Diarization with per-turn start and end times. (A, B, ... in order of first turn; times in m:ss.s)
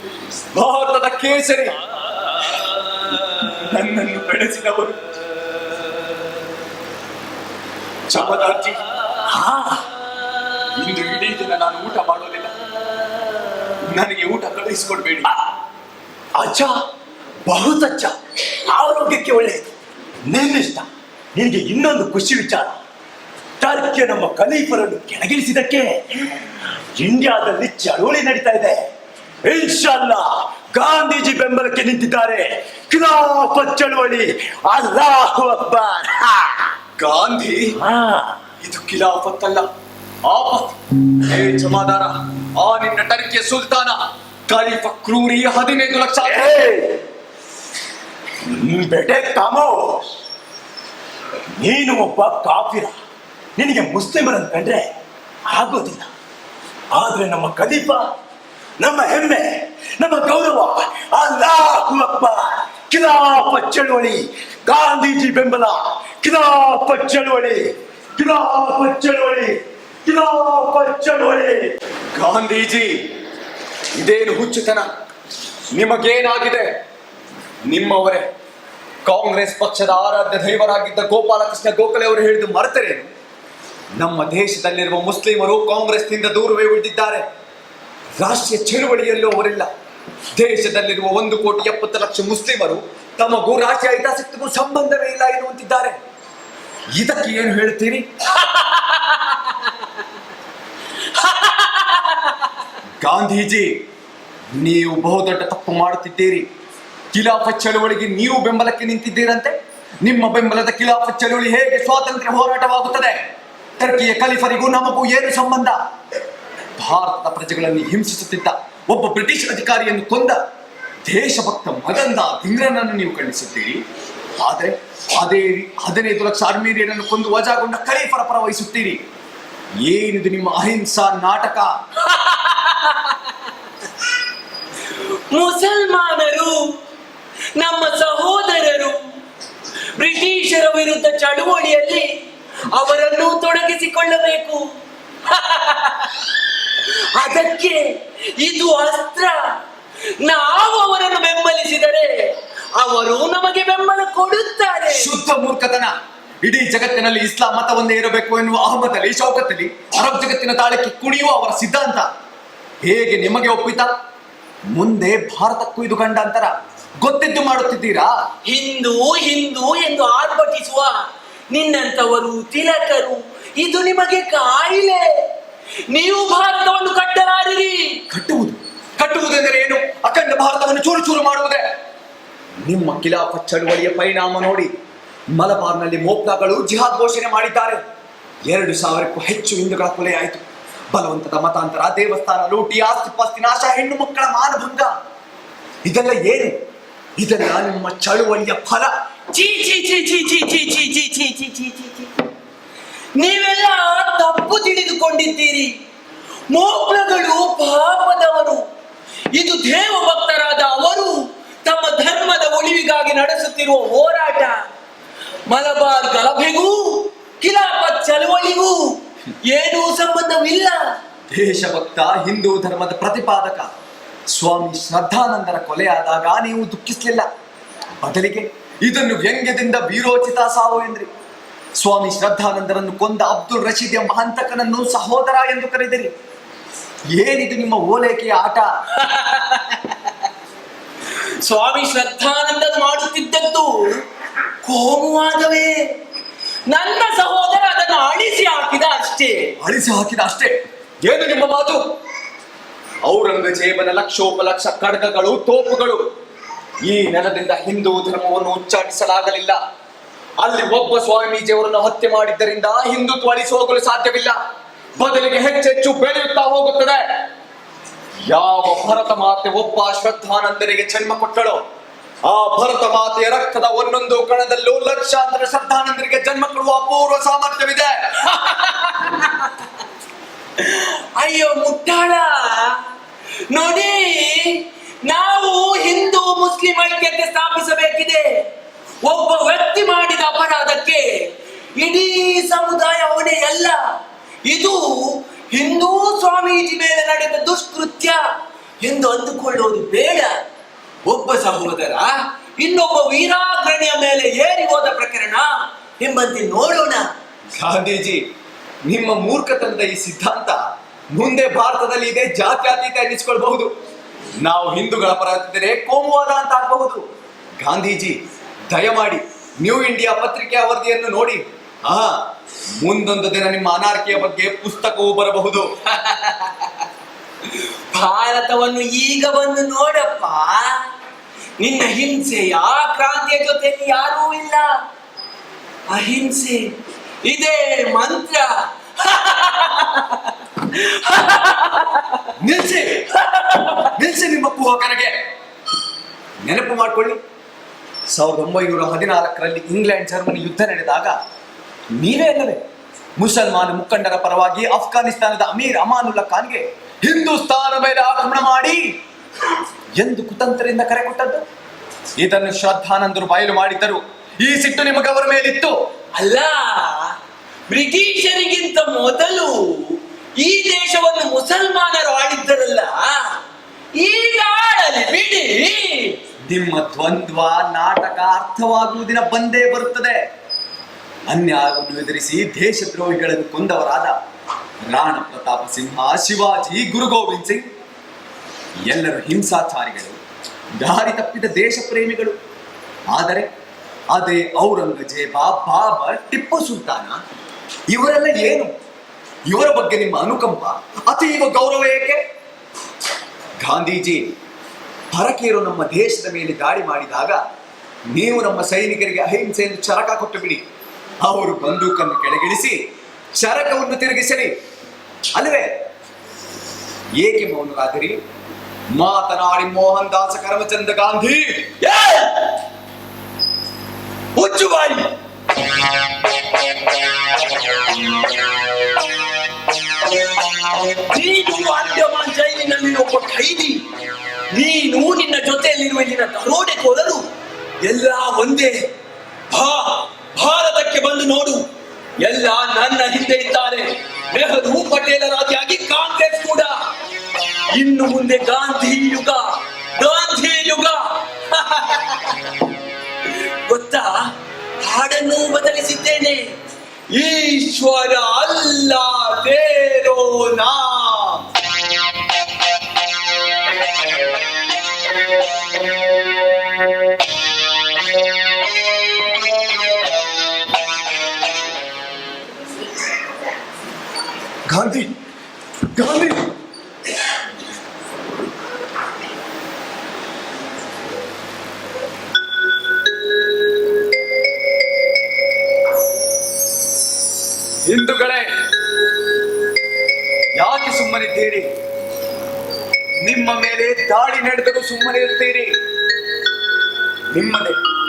0:00.5-0:05.2 A
0:08.1-0:08.8 A
0:09.3-0:09.9 B
0:10.8-0:12.5 A
0:13.9-0:15.3 A
0:16.4-0:16.8 B
0:17.5-0:19.7 B
0:20.3-0:22.8 B
0:23.6-0:26.3 B
0:27.0-0:28.9 B
0:29.4-0:36.7 B
0:37.0-0:37.8 A
0:37.8-0:38.4 B
0:38.6-0:39.6 A
0:40.3-0:46.6 A
0:46.3-0:47.0 B
0:48.5-0:50.1 B
0:51.6-0:52.9 B
0:53.6-0:54.9 B
0:55.5-0:56.1 B
0:56.9-0:58.1 B
0:58.8-1:11.7 B
1:12.2-1:13.0 A
1:14.0-1:14.9 A
1:15.7-1:16.7 A
1:17.7-1:18.3 A
1:19.0-1:23.1 A
1:24.0-1:27.2 A
1:28.2-1:29.7 A
1:30.4-1:36.0 A
1:37.0-1:38.0 A
1:38.4-1:39.4 C
1:41.1-1:42.1 C
1:43.0-1:43.7 A
1:44.6-1:46.5 A
1:47.1-1:53.2 A
1:53.8-1:55.8 A
1:56.8-2:00.4 A
2:01.1-2:03.8 A
2:04.4-2:09.0 A
2:09.8-2:11.7 A
2:12.0-2:13.2 C
2:15.3-2:16.6 C
2:17.6-2:19.0 C
2:20.0-2:22.1 C
2:22.7-2:24.6 C
2:25.3-2:26.3 C
2:26.8-2:29.4 C
2:30.2-2:35.2 C
2:34.9-2:35.9 A
2:36.4-2:42.1 A
2:42.8-2:43.9 A
2:44.7-2:48.1 A
2:48.4-2:55.1 C
2:55.9-2:58.0 C
2:58.1-3:01.6 A
3:02.6-3:04.7 A
3:05.4-3:07.8 A
3:08.5-3:10.4 A
3:10.9-3:14.9 A
3:15.8-3:16.5 A
3:17.2-3:18.9 A
3:19.3-3:22.2 C
3:23.2-3:25.8 C
3:26.5-3:28.6 C
3:29.3-3:34.6 C
3:35.5-3:40.9 C
3:41.3-3:43.7 A
3:44.3-3:47.3 A
3:48.0-3:51.1 A
3:51.8-3:56.1 A
3:57.1-3:58.7 A
3:59.0-4:00.0 C
4:01.4-4:04.0 C
4:04.6-4:05.8 C
4:06.7-4:09.5 C
4:09.6-4:11.8 A
4:13.0-4:16.0 A
4:16.8-4:19.6 A
4:20.4-4:24.4 A
4:25.0-4:27.1 A
4:28.3-4:31.6 A
4:32.2-4:38.2 A
4:38.3-4:39.5 C
4:40.6-4:42.8 C
4:43.5-4:48.4 C
4:49.0-4:53.8 C
4:54.4-4:58.2 C
4:58.8-5:00.4 C
5:01.0-5:07.1 C
5:07.6-5:08.2 A
5:08.9-5:10.6 A
5:11.1-5:13.7 A
5:14.4-5:17.0 A
5:17.6-5:18.2 A
5:18.7-5:22.2 A
5:22.8-5:25.7 A
5:25.9-5:26.7 C
5:27.5-5:30.9 C
5:31.6-5:34.8 C
5:35.9-5:36.7 C
5:37.2-5:42.2 C
5:42.4-5:43.1 A
5:43.4-5:43.9 C
5:43.8-5:45.1 A
5:46.4-5:47.2 A
5:48.1-5:51.2 A
5:52.0-5:52.6 A
5:53.2-5:58.8 A
6:00.0-6:01.4 A
6:02.2-6:05.7 A
6:06.2-6:07.2 C
6:07.7-6:13.2 C
6:14.0-6:16.2 C
6:16.5-6:20.2 A
6:21.3-6:24.1 A
6:24.9-6:27.6 A
6:28.9-6:30.2 A
6:30.8-6:32.4 A
6:33.1-6:33.5 A
6:34.1-6:37.2 A
6:37.9-6:38.7 A
6:39.5-6:42.2 A
6:43.6-6:44.2 A
6:45.1-6:47.4 A
6:48.1-6:50.6 A
6:51.2-6:52.8 A
6:53.4-6:54.5 A
6:55.4-6:55.7 A
6:57.2-6:58.2 A
6:59.0-7:01.7 A
7:01.8-7:02.5 C
7:04.4-7:05.1 C
7:11.1-7:13.8 C
7:14.5-7:17.2 C
7:17.8-7:18.9 C
7:19.5-7:21.6 C
7:22.2-7:26.8 C
7:27.7-7:32.4 C
7:33.7-7:34.2 C
7:34.8-7:36.5 C
7:37.1-7:41.4 A
7:54.7-7:55.1 A
7:55.9-7:56.5 A
8:07.9-8:08.5 A
8:10.6-8:11.7 A
8:13.2-8:15.7 A
8:17.3-8:17.8 A